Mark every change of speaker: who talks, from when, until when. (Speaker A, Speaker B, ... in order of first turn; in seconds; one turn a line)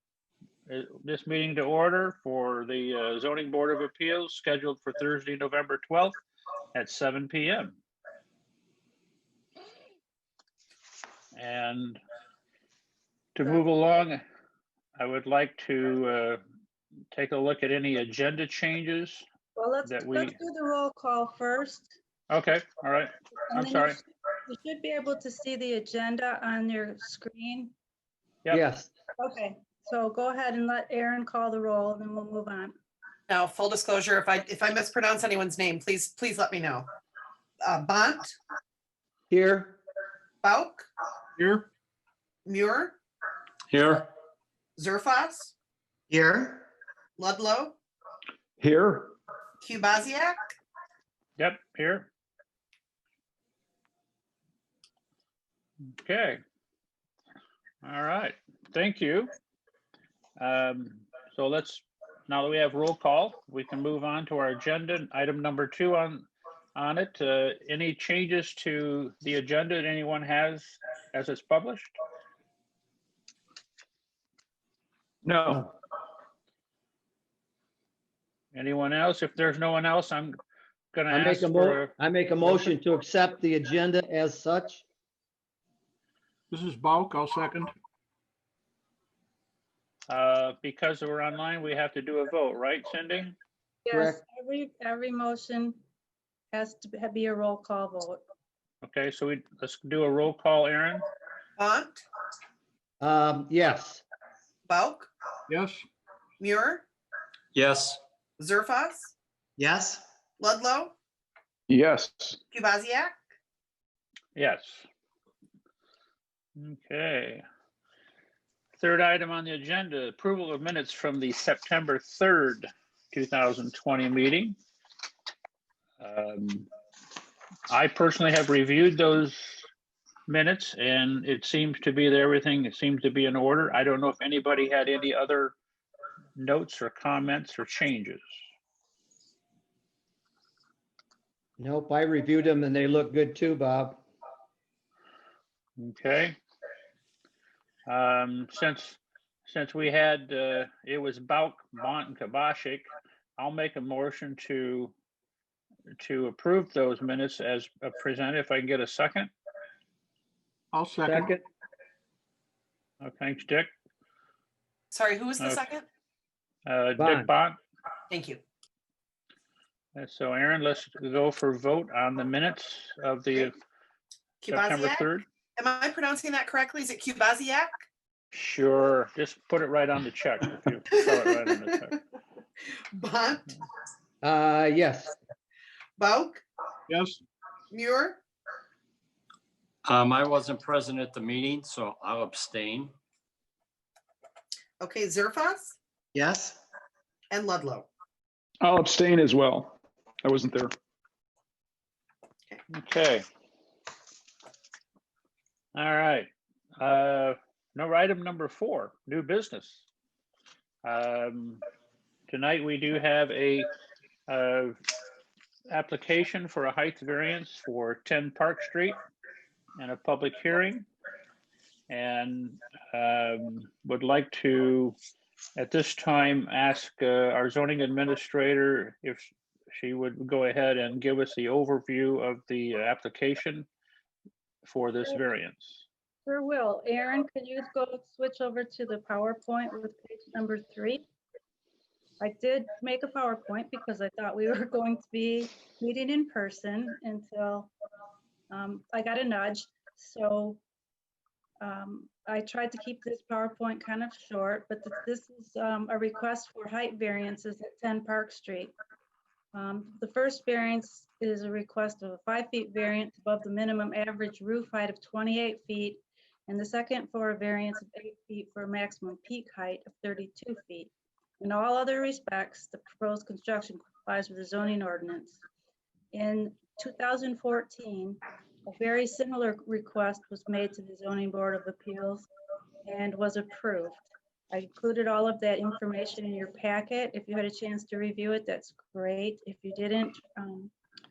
Speaker A: 0.7-6.2
Speaker A: 6.7-7.8
Speaker A: 11.3-12.0
Speaker A: 13.3-14.2
Speaker A: 15.0-16.4
Speaker A: 17.1-19.2
Speaker B: 19.6-21.9
Speaker A: 19.9-20.3
Speaker A: 22.3-24.0
Speaker B: 23.5-27.7
Speaker C: 28.5-28.9
Speaker B: 29.2-32.7
Speaker D: 33.3-36.9
Speaker D: 37.6-38.3
Speaker C: 39.3-39.8
Speaker D: 40.4-40.9
Speaker E: 41.4-41.6
Speaker D: 42.5-43.0
Speaker F: 43.7-44.0
Speaker D: 44.8-45.5
Speaker D: 46.1-46.4
Speaker D: 47.2-47.8
Speaker G: 48.6-49.1
Speaker D: 49.6-50.4
Speaker A: 51.4-52.1
Speaker A: 56.0-56.4
Speaker A: 57.8-59.3
Speaker A: 60.4-71.9
Speaker G: 75.2-75.7
Speaker A: 78.5-80.3
Speaker A: 80.9-82.7
Speaker C: 81.1-84.8
Speaker E: 86.5-87.7
Speaker A: 90.1-93.3
Speaker B: 93.8-95.8
Speaker C: 93.9-94.2
Speaker B: 96.5-98.2
Speaker A: 98.8-101.0
Speaker D: 101.6-102.0
Speaker C: 103.0-104.0
Speaker D: 104.7-105.1
Speaker E: 105.5-105.8
Speaker D: 106.4-106.8
Speaker F: 107.5-108.0
Speaker D: 108.4-109.1
Speaker D: 110.4-110.9
Speaker G: 111.7-112.4
Speaker D: 112.5-113.1
Speaker A: 114.3-114.9
Speaker A: 116.6-117.4
Speaker A: 118.8-124.5
Speaker A: 126.0-126.7
Speaker A: 127.7-129.7
Speaker A: 130.3-135.6
Speaker A: 136.3-138.2
Speaker C: 141.6-144.0
Speaker A: 145.8-146.4
Speaker A: 147.9-152.9
Speaker A: 153.4-154.9
Speaker A: 156.0-159.3
Speaker E: 160.7-161.3
Speaker C: 161.1-161.4
Speaker A: 163.0-163.7
Speaker D: 164.9-165.8
Speaker A: 165.4-165.6
Speaker A: 166.7-167.6
Speaker C: 167.0-167.3
Speaker D: 168.1-168.4
Speaker A: 169.9-173.5
Speaker D: 174.4-175.1
Speaker A: 174.5-175.2
Speaker D: 175.6-177.8
Speaker A: 178.3-182.0
Speaker D: 182.9-183.4
Speaker C: 184.2-185.1
Speaker D: 186.0-186.4
Speaker E: 186.9-187.2
Speaker D: 187.7-188.2
Speaker F: 189.8-192.9
Speaker D: 194.8-195.8
Speaker D: 197.3-197.9
Speaker G: 198.6-200.7
Speaker A: 202.7-203.2
Speaker A: 205.7-209.8
Speaker A: 210.8-211.6
Speaker A: 212.3-213.7
Speaker A: 214.3-214.8
Speaker A: 215.7-219.0
Speaker A: 219.8-220.9
Speaker A: 221.9-224.9
Speaker A: 225.6-233.7
Speaker A: 234.6-235.8
Speaker B: 236.2-241.0
Speaker B: 242.2-247.7
Speaker B: 248.5-250.6
Speaker B: 251.6-258.7
Speaker B: 259.5-275.4
Speaker B: 276.1-282.3
Speaker B: 282.8-290.7